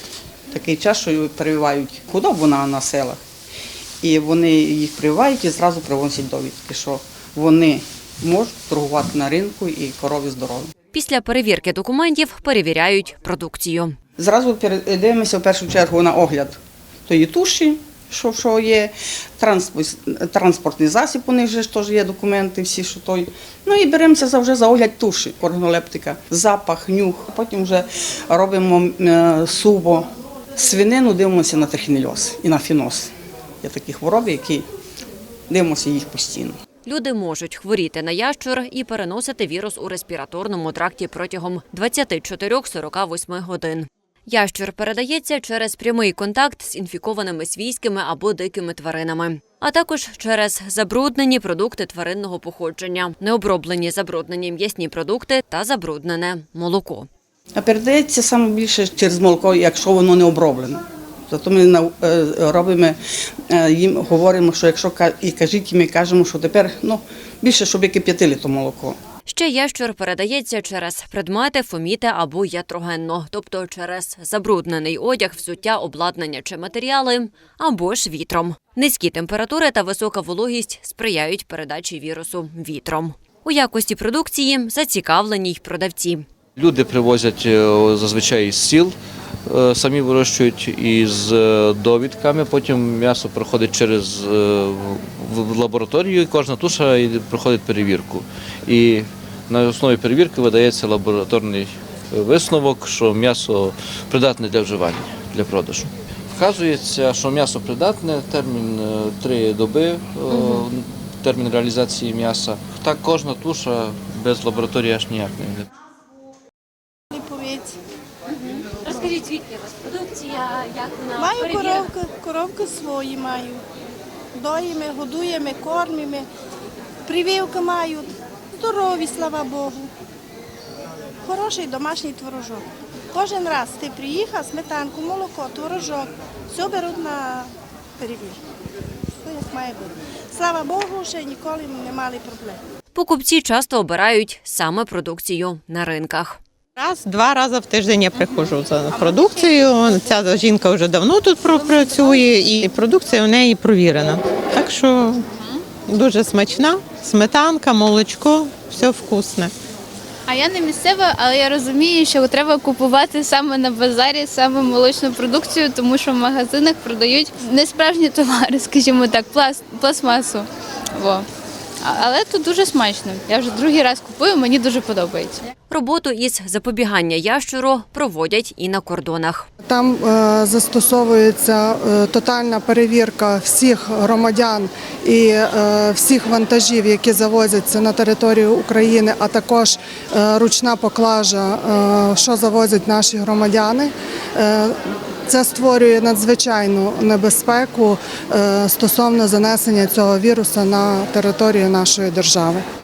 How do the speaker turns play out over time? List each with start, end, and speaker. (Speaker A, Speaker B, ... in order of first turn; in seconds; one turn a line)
Speaker A: 0.5-3.2
Speaker A: 4.0-10.7
Speaker B: 10.9-14.0
Speaker A: 14.2-33.1
Speaker A: 33.6-34.7
Speaker A: 35.5-36.6
Speaker B: 36.9-57.1
Speaker A: 57.6-63.0
Speaker A: 63.5-69.0
Speaker B: 69.3-86.2
Speaker C: 86.6-89.0
Speaker C: 89.5-115.7
Speaker D: 117.1-117.8
Speaker D: 118.8-119.2
Speaker D: 121.1-123.6
Speaker D: 124.3-126.3
Speaker D: 127.1-129.9
Speaker D: 131.2-138.4
Speaker D: 139.2-142.6
Speaker B: 142.9-146.4
Speaker E: 146.8-159.5
Speaker F: 148.9-149.3
Speaker F: 151.6-152.3
Speaker F: 155.4-155.6
Speaker F: 160.3-171.3
Speaker F: 171.8-175.4
Speaker B: 175.7-179.5
Speaker G: 179.6-202.6